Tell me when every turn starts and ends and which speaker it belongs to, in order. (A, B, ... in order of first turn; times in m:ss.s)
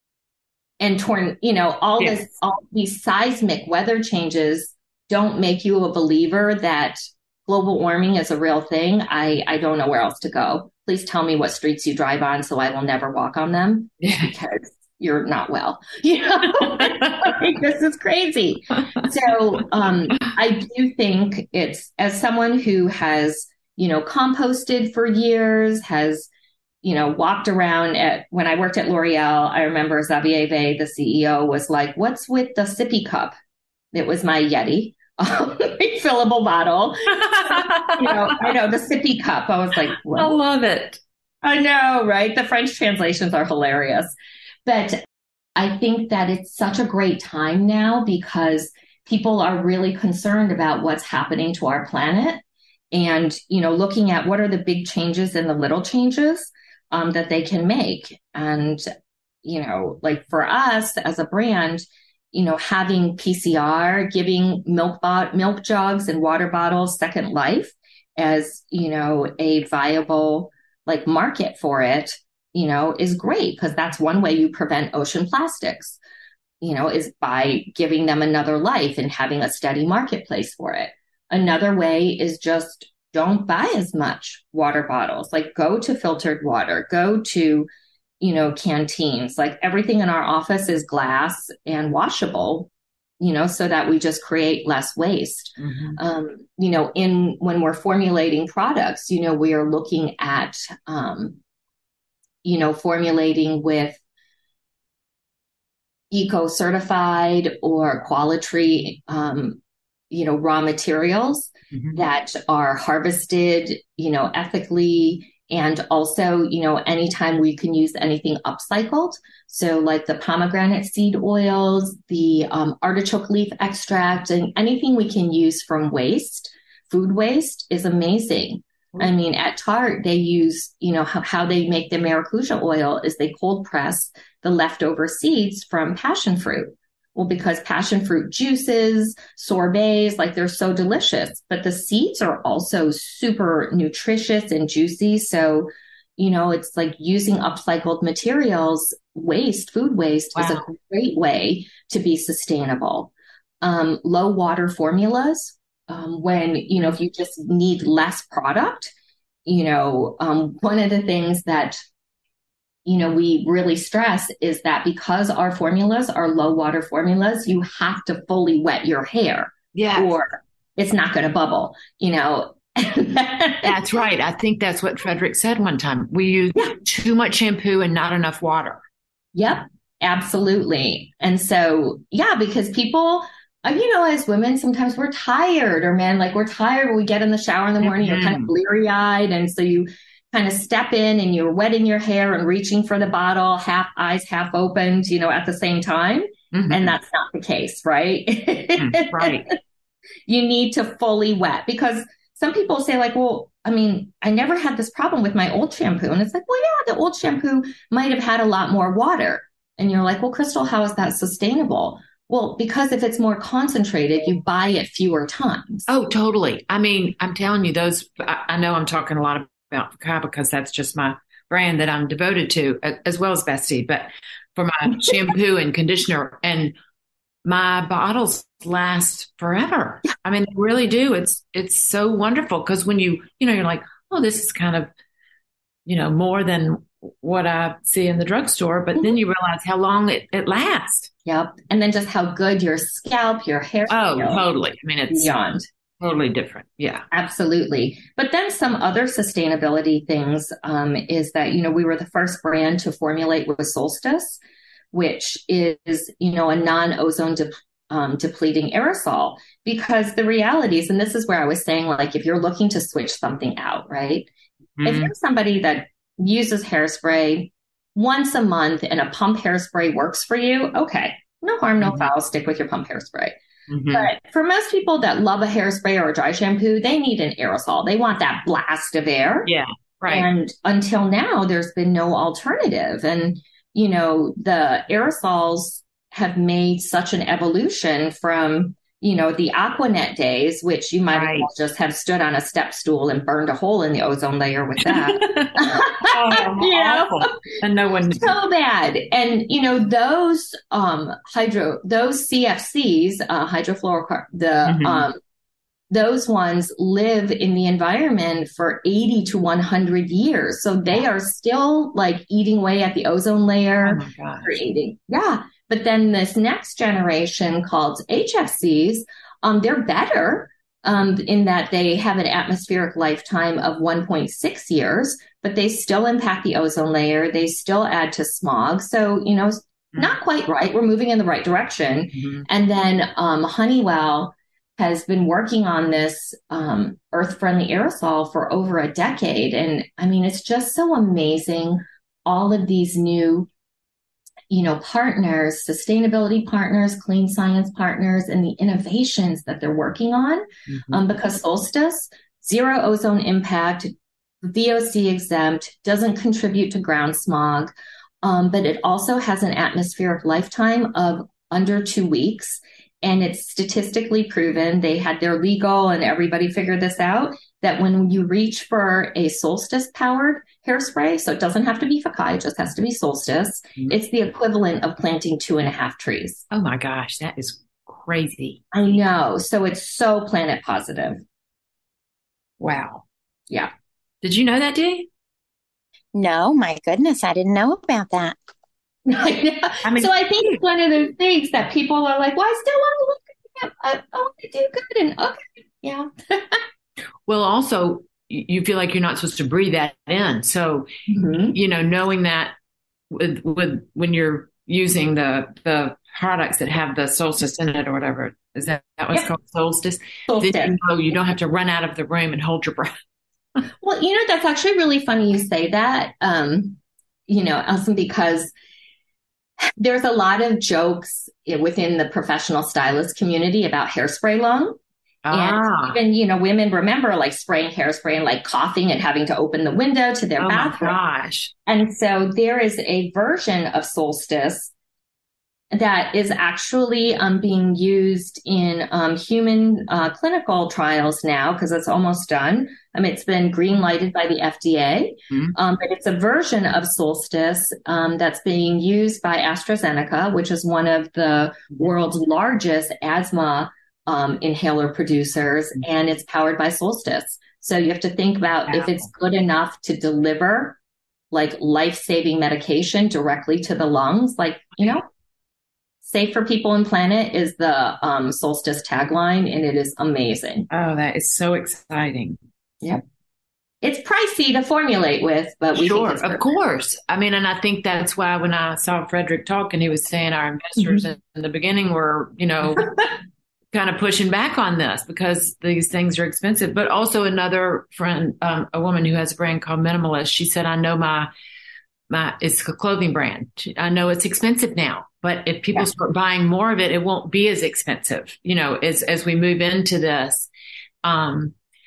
0:00.8-0:26.3 A
0:02.0-0:02.2 B
0:14.0-0:14.3 B
0:16.6-0:17.4 B
0:26.8-0:33.3 A
0:33.9-0:40.4 A
0:37.2-0:38.5 B
0:40.1-0:41.0 B
0:41.4-0:44.1 A
0:44.7-0:45.0 A
0:45.6-0:58.8 A
0:59.4-1:16.0 A
1:16.6-1:27.7 A
1:28.2-1:32.7 A
1:33.2-1:41.4 A
1:35.6-1:36.0 B
1:42.4-1:44.0 A
1:46.1-1:49.6 A
1:50.1-2:38.9 A
1:51.7-1:52.0 B
2:30.4-2:30.6 B
2:39.5-2:41.8 A
2:42.9-2:53.7 A
2:49.7-2:50.1 B
2:53.6-2:58.8 B
2:59.4-3:19.6 A
3:07.8-3:08.5 B
3:16.5-3:17.0 B
3:18.8-3:19.5 B
3:20.3-3:35.9 A
3:35.9-3:46.7 B
3:47.4-3:54.9 B
3:55.9-4:01.1 B
4:01.3-4:04.4 A
4:03.9-4:05.3 B
4:05.1-4:05.7 A
4:06.0-4:07.0 B
4:07.1-4:14.4 A
4:14.9-4:24.3 A
4:24.8-4:25.1 B
4:24.8-4:33.4 A
4:31.8-4:32.1 B
4:33.7-4:34.1 B
4:33.9-4:39.5 A
4:39.5-4:40.3 B
4:40.1-4:57.6 A
4:51.1-4:51.5 B
4:54.9-4:58.4 B
4:58.2-5:05.2 A
5:04.7-5:05.1 B
5:05.9-5:43.5 A
5:13.8-5:14.6 B
5:32.1-5:32.4 B
5:44.5-5:53.9 A
5:50.7-5:51.0 B
5:54.4-5:57.7 A
5:58.2-6:16.4 A
6:16.5-6:18.7 B
6:18.7-6:21.2 A
6:22.6-6:23.0 B
6:24.2-6:25.1 B
6:26.1-6:28.4 C
6:29.1-6:36.6 A
6:29.8-6:30.6 B
6:37.3-6:40.9 B
6:41.1-6:41.6 A
6:41.5-6:42.5 B
6:43.1-6:52.9 B
6:50.3-6:50.8 A
6:53.8-6:58.5 A
6:59.8-7:04.8 A
7:05.3-7:06.0 B
7:05.3-7:11.0 A
7:10.4-7:11.5 B
7:11.7-7:14.7 A
7:15.7-7:40.8 A
7:38.7-7:39.0 B
7:41.3-7:45.1 A
7:46.0-7:50.7 A
7:50.7-7:52.4 B
7:53.8-7:56.4 A
7:55.8-8:02.9 B
8:03.7-8:11.3 B
8:12.1-8:20.5 B
8:21.0-8:21.6 B